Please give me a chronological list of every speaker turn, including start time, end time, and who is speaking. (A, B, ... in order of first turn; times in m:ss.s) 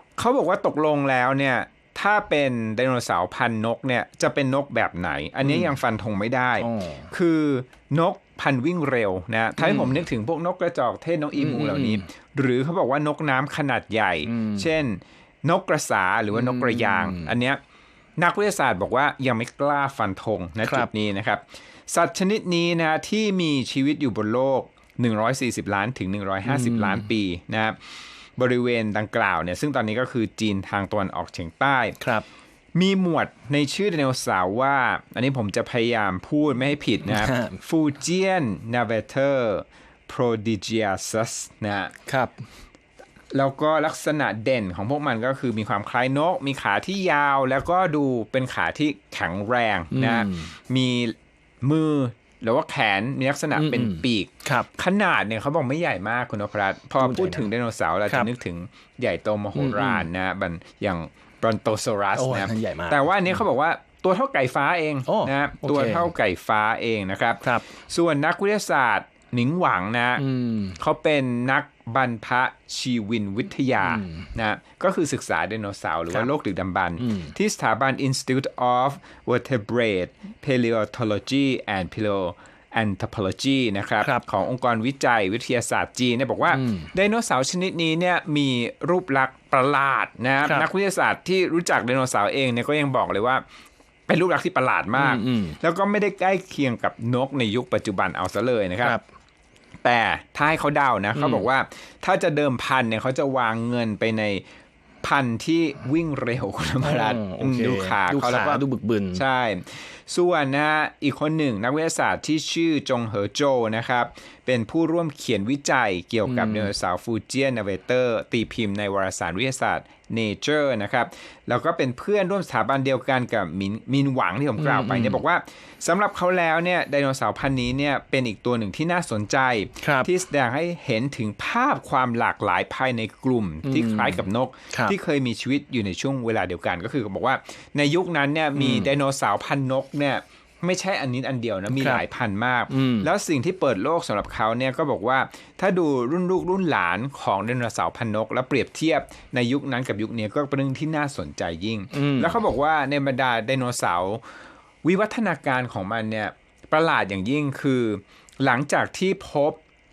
0:00.2-0:17.6 A
0:05.4-0:05.7 B
0:06.6-0:07.1 B
0:09.6-0:10.0 B
0:11.4-0:12.0 B
0:14.2-0:14.7 B
0:16.3-0:17.3 B
0:18.2-0:27.8 A
0:20.6-0:20.9 B
0:26.5-0:27.0 B
0:28.4-0:32.0 A
0:32.0-0:32.2 B
0:32.7-0:41.9 A
0:37.0-0:37.6 B
0:42.1-0:42.4 B
0:43.3-1:10.2 A
0:49.9-0:50.5 B
0:53.5-0:54.7 B
0:57.0-0:57.5 B
0:59.6-1:00.0 B
1:02.2-1:03.0 B
1:05.0-1:06.1 B
1:10.2-1:10.8 B
1:10.8-1:33.4 A
1:13.9-1:14.2 B
1:17.0-1:17.3 B
1:26.5-1:26.9 B
1:34.1-1:39.0 A
1:35.0-1:35.6 B
1:39.8-1:44.4 A
1:41.2-1:41.4 B
1:45.0-1:48.6 A
1:46.8-1:49.2 B
1:49.1-2:34.2 A
1:56.2-1:56.7 B
2:04.6-2:05.2 B
2:09.8-2:10.1 B
2:13.6-2:14.9 B
2:18.6-2:18.9 B
2:21.8-2:22.0 B
2:22.7-2:23.1 B
2:31.9-2:32.4 B
2:34.8-2:39.6 A